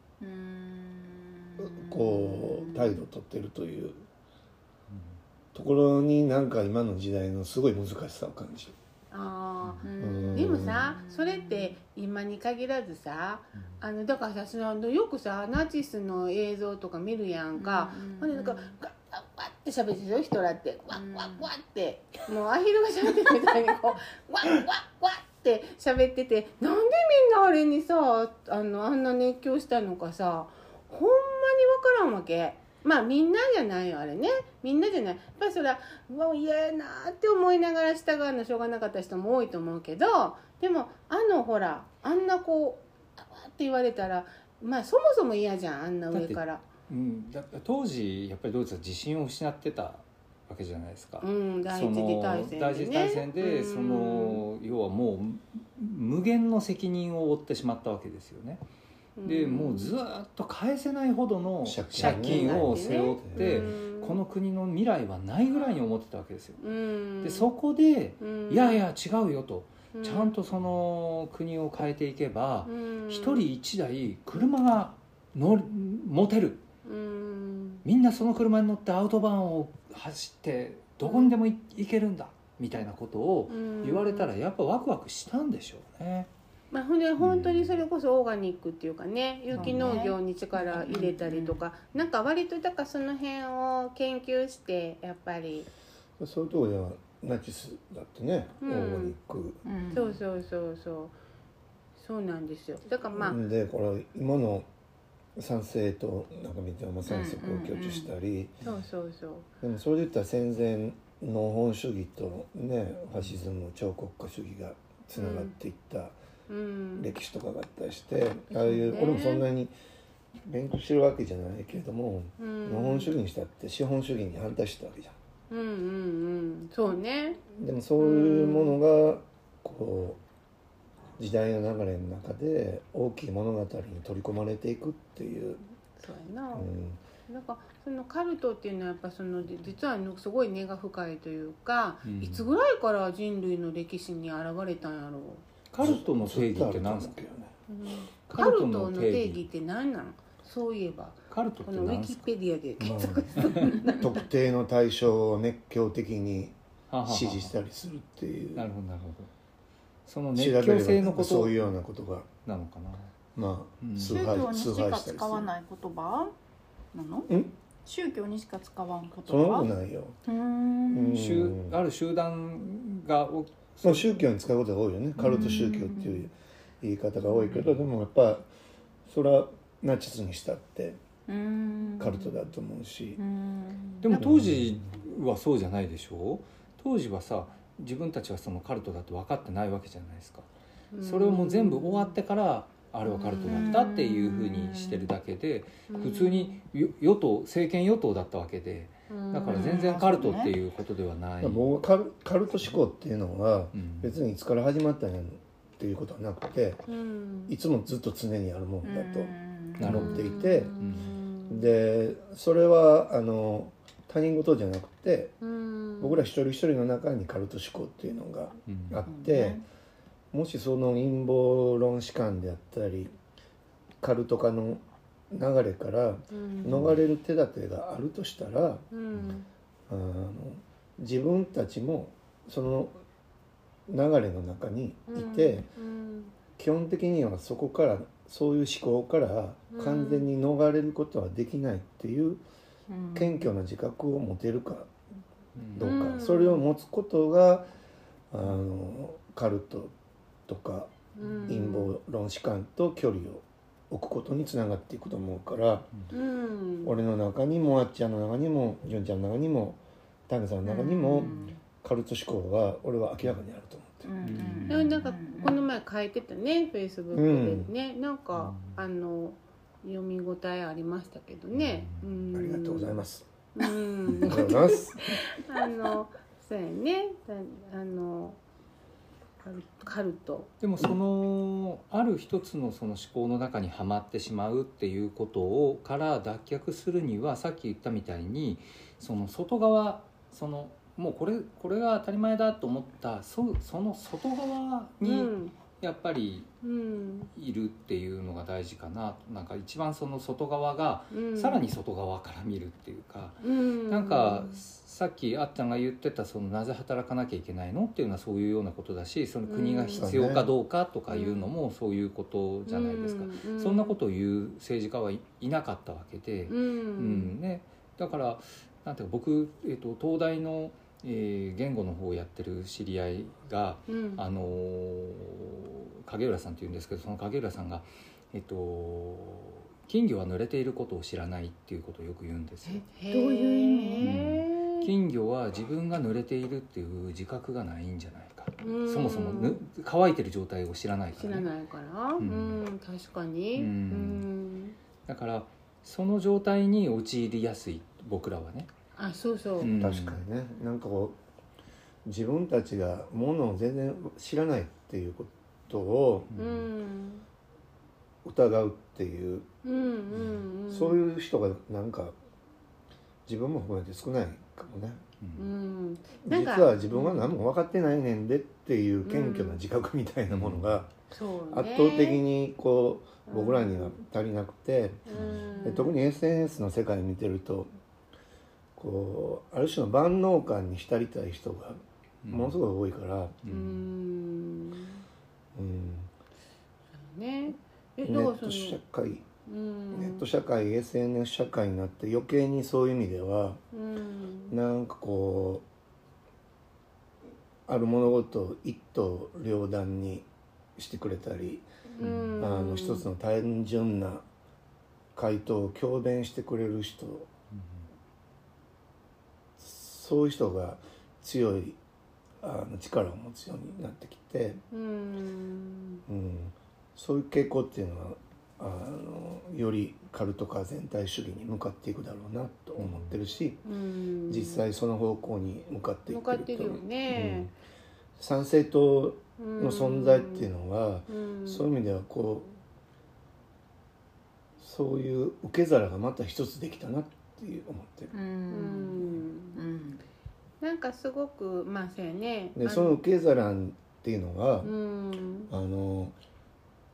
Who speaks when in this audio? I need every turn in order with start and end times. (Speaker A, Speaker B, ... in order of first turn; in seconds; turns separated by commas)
Speaker A: 0.2-3.0, Speaker B: 1.6-4.0, Speaker B: 5.5-8.7, Speaker C: 9.1-46.6, Speaker A: 9.8-11.8, Speaker B: 10.0-10.8, Speaker A: 17.6-18.7, Speaker A: 20.9-21.4, Speaker D: 46.1-58.6, Speaker C: 51.2-54.4, Speaker C: 59.2-60.0, Speaker D: 59.2-66.6, Speaker B: 61.6-63.7, Speaker C: 61.9-64.2, Speaker C: 66.6-67.5, Speaker D: 67.2-76.6, Speaker C: 68.2-68.8, Speaker C: 69.9-70.3, Speaker C: 72.7-73.5, Speaker C: 76.8-77.8, Speaker D: 77.8-86.3, Speaker C: 81.0-81.3, Speaker C: 83.5-84.3, Speaker C: 86.7-95.7, Speaker D: 87.2-87.8, Speaker A: 89.5-91.7, Speaker D: 89.5-89.8, Speaker B: 96.2-99.6, Speaker C: 98.6-99.2, Speaker A: 99.7-100.2, Speaker C: 99.9-101.2, Speaker C: 102.0-103.4, Speaker B: 103.1-104.7, Speaker B: 105.4-108.5, Speaker A: 107.1-108.1, Speaker C: 108.6-109.5, Speaker B: 109.6-116.2, Speaker C: 115.2-115.5, Speaker C: 116.5-117.1, Speaker B: 117.0-119.7, Speaker C: 118.6-119.5, Speaker B: 120.5-125.1, Speaker C: 122.4-123.2, Speaker C: 125.5-127.4, Speaker B: 127.5-130.2, Speaker C: 128.0-128.8, Speaker B: 131.2-135.6, Speaker C: 136.0-136.7, Speaker B: 136.6-137.0, Speaker C: 137.3-145.4, Speaker D: 142.0-142.5, Speaker D: 145.7-147.2, Speaker B: 145.8-147.5, Speaker C: 147.7-154.2, Speaker D: 148.3-149.4, Speaker D: 151.3-152.3, Speaker B: 152.8-158.7, Speaker D: 153.4-153.7, Speaker D: 156.9-157.5, Speaker D: 158.6-159.3, Speaker D: 160.1-161.7, Speaker B: 160.3-162.3, Speaker D: 162.4-163.1, Speaker B: 163.3-165.5, Speaker D: 163.8-164.3, Speaker A: 164.1-166.3, Speaker A: 166.9-167.3, Speaker A: 167.8-169.7, Speaker B: 169.3-170.2, Speaker A: 170.3-171.3, Speaker B: 170.9-171.8, Speaker D: 171.2-174.1, Speaker B: 173.8-178.5, Speaker D: 175.2-175.9, Speaker A: 175.2-176.3, Speaker B: 179.1-181.0, Speaker A: 181.3-182.4, Speaker B: 182.0-183.2, Speaker A: 183.2-184.1, Speaker D: 184.0-190.5, Speaker B: 184.1-184.7, Speaker C: 190.9-192.2, Speaker D: 191.0-201.7, Speaker C: 193.2-193.7, Speaker A: 193.4-195.1, Speaker C: 195.9-196.6, Speaker C: 199.1-199.8, Speaker A: 199.5-200.6, Speaker B: 201.4-206.8, Speaker D: 203.7-204.2, Speaker C: 206.9-207.5, Speaker B: 207.5-210.7, Speaker A: 208.8-210.2, Speaker D: 209.8-211.1, Speaker C: 209.9-211.7, Speaker B: 211.5-215.3, Speaker C: 215.4-216.3, Speaker B: 216.0-219.6, Speaker D: 218.7-219.0, Speaker A: 219.1-219.6, Speaker B: 220.3-223.2, Speaker B: 224.0-228.9, Speaker C: 226.3-226.9, Speaker D: 226.7-227.0, Speaker C: 228.9-229.5, Speaker B: 229.9-233.0, Speaker B: 233.9-235.7, Speaker C: 235.1-236.3, Speaker B: 236.6-242.4, Speaker C: 239.7-240.3, Speaker A: 242.9-243.5, Speaker B: 243.1-244.9, Speaker D: 245.6-246.1, Speaker B: 245.7-247.7, Speaker C: 245.8-246.6, Speaker B: 248.3-249.9, Speaker B: 250.5-250.9, Speaker C: 251.2-251.9, Speaker B: 251.4-255.9, Speaker C: 256.1-257.0, Speaker B: 256.8-264.1, Speaker A: 260.6-261.5, Speaker A: 264.1-265.6, Speaker D: 264.2-264.9, Speaker C: 264.7-273.0, Speaker B: 267.1-267.7, Speaker D: 268.4-268.7, Speaker D: 271.5-272.1, Speaker B: 272.3-273.3, Speaker C: 273.5-278.4, Speaker B: 274.2-275.2, Speaker C: 279.4-280.5, Speaker D: 280.6-296.5, Speaker C: 295.0-295.5, Speaker C: 296.6-297.3, Speaker D: 297.3-332.9, Speaker C: 301.1-301.6, Speaker C: 303.4-304.6, Speaker C: 309.5-310.1, Speaker B: 309.9-310.5, Speaker C: 311.1-311.5, Speaker C: 312.7-314.0, Speaker C: 316.5-317.3, Speaker C: 323.9-324.2, Speaker C: 332.7-334.9, Speaker A: 333.1-334.1, Speaker D: 334.0-341.5, Speaker C: 338.6-339.6, Speaker C: 341.1-344.8, Speaker D: 342.2-342.6, Speaker D: 343.6-344.3, Speaker D: 345.1-348.7, Speaker C: 349.0-349.8, Speaker D: 349.6-350.2, Speaker B: 349.6-351.2, Speaker B: 352.1-356.3, Speaker D: 356.3-356.7, Speaker C: 356.4-357.2, Speaker B: 358.2-359.5, Speaker C: 359.6-361.1, Speaker D: 360.1-360.4, Speaker B: 360.7-362.1, Speaker B: 363.3-365.0, Speaker D: 365.2-365.5, Speaker C: 365.4-367.3, Speaker B: 366.2-370.9, Speaker C: 369.1-369.6, Speaker D: 370.3-370.8, Speaker C: 371.1-372.2, Speaker B: 371.5-375.0, Speaker C: 373.3-374.0, Speaker C: 375.1-375.9, Speaker D: 375.1-375.5, Speaker B: 375.6-377.7, Speaker B: 378.8-383.4, Speaker D: 382.2-382.6, Speaker D: 383.4-383.8, Speaker C: 383.5-385.0, Speaker B: 385.5-386.1, Speaker C: 387.0-388.8, Speaker B: 388.0-389.2, Speaker C: 389.5-390.3, Speaker B: 389.9-393.6, Speaker C: 393.7-394.5, Speaker B: 394.5-395.7, Speaker B: 397.7-401.7, Speaker C: 401.9-403.1, Speaker D: 402.0-402.4, Speaker B: 402.4-404.2, Speaker B: 405.1-407.3, Speaker D: 407.5-407.9, Speaker B: 409.6-411.8, Speaker B: 412.4-414.6, Speaker C: 414.7-416.0, Speaker B: 416.1-423.6, Speaker C: 422.8-423.1, Speaker C: 423.6-424.7, Speaker B: 424.3-427.5, Speaker C: 426.1-427.5, Speaker B: 428.2-432.5, Speaker C: 429.4-430.5, Speaker C: 431.1-431.6, Speaker B: 434.6-438.1, Speaker A: 438.1-440.0, Speaker C: 438.5-439.6, Speaker C: 440.6-443.0, Speaker B: 442.6-444.7, Speaker C: 444.6-445.5, Speaker B: 445.5-446.2